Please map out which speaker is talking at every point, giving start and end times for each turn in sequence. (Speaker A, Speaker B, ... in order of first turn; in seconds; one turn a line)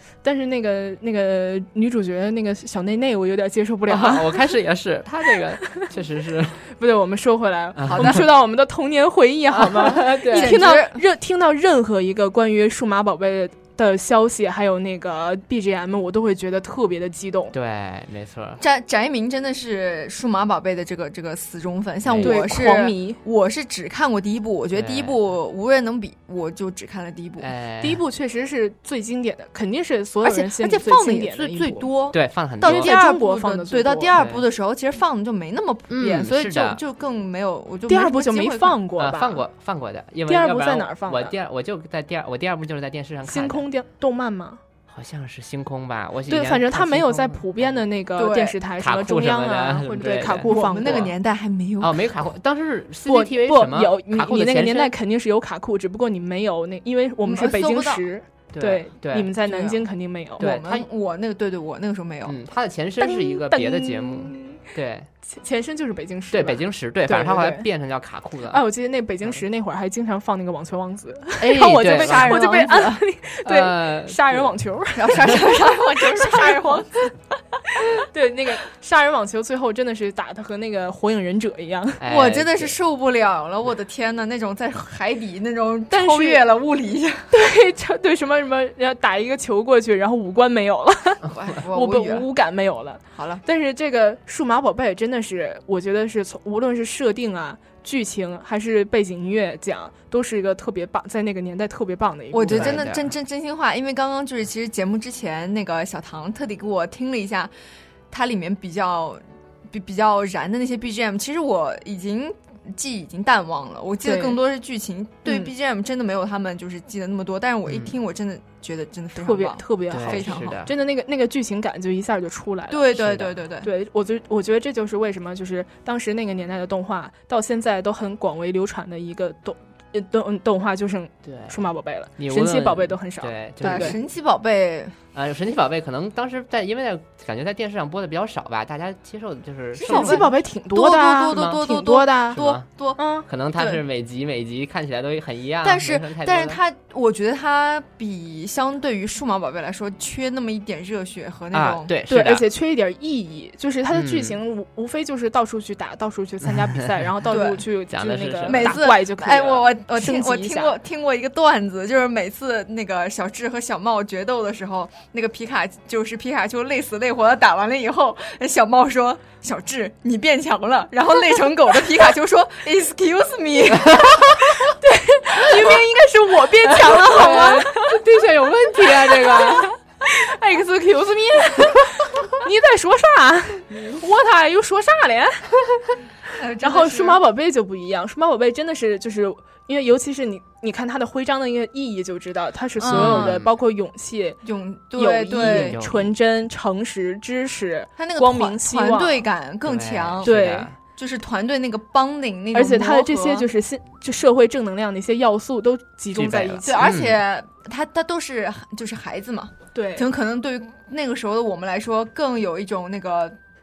Speaker A: 0.2-4.5
Speaker B: 3.9-6.6
Speaker A: 6.8-17.6
Speaker B: 7.8-8.2
Speaker C: 7.9-8.3
Speaker B: 9.5-10.5
Speaker C: 10.3-11.0
Speaker B: 17.5-18.6
Speaker C: 18.6-27.5
Speaker B: 22.1-22.4
Speaker A: 22.2-23.2
Speaker B: 24.7-25.2
Speaker B: 27.4-28.0
Speaker A: 27.8-32.0
Speaker C: 30.2-38.9
Speaker B: 32.1-32.9
Speaker A: 32.6-34.1
Speaker B: 34.1-34.4
Speaker B: 35.9-36.8
Speaker A: 37.9-39.4
Speaker B: 39.0-43.7
Speaker A: 40.3-41.4
Speaker A: 43.2-44.6
Speaker B: 44.9-47.8
Speaker A: 46.3-51.1
Speaker C: 48.2-48.6
Speaker B: 48.8-51.1
Speaker C: 50.5-52.1
Speaker B: 51.8-54.9
Speaker A: 53.1-60.5
Speaker C: 57.2-58.0
Speaker B: 58.5-59.3
Speaker C: 59.5-59.8
Speaker C: 60.4-62.4
Speaker B: 60.4-60.9
Speaker B: 62.2-65.1
Speaker A: 63.0-64.6
Speaker A: 65.3-67.7
Speaker B: 66.3-68.6
Speaker A: 68.5-76.8
Speaker B: 71.4-72.5
Speaker C: 71.9-73.0
Speaker B: 73.4-74.5
Speaker C: 75.0-77.1
Speaker A: 78.0-82.0
Speaker B: 82.0-82.8
Speaker C: 82.1-87.3
Speaker A: 85.9-86.4
Speaker A: 87.3-102.8
Speaker C: 91.3-92.2
Speaker C: 93.1-93.4
Speaker C: 102.3-107.5
Speaker B: 102.4-103.1
Speaker C: 108.1-120.6
Speaker A: 114.0-114.4
Speaker A: 115.2-115.5
Speaker B: 117.7-117.9
Speaker A: 119.2-122.9
Speaker B: 119.9-120.7
Speaker C: 122.7-123.7
Speaker B: 122.9-123.3
Speaker A: 123.6-134.0
Speaker B: 131.2-131.6
Speaker B: 132.2-134.0
Speaker C: 133.6-134.9
Speaker B: 135.1-140.3
Speaker C: 139.8-143.0
Speaker A: 139.9-143.3
Speaker B: 141.3-141.6
Speaker B: 142.3-142.6
Speaker B: 143.3-146.6
Speaker C: 143.6-143.8
Speaker C: 145.6-151.9
Speaker B: 151.5-152.5
Speaker A: 152.1-160.8
Speaker B: 153.9-154.4
Speaker B: 156.5-156.8
Speaker C: 157.3-157.6
Speaker B: 157.9-158.8
Speaker C: 158.5-174.7
Speaker A: 174.7-185.9
Speaker C: 175.4-177.7
Speaker B: 178.6-179.7
Speaker C: 186.3-187.2
Speaker A: 186.6-194.4
Speaker C: 192.8-193.4
Speaker B: 192.9-193.5
Speaker C: 194.4-195.8
Speaker A: 194.9-199.3
Speaker B: 195.5-196.1
Speaker C: 198.0-200.3
Speaker B: 199.6-200.8
Speaker A: 200.2-200.7
Speaker C: 200.9-203.5
Speaker A: 202.5-206.8
Speaker B: 206.1-207.2
Speaker C: 206.6-213.4
Speaker A: 209.7-210.1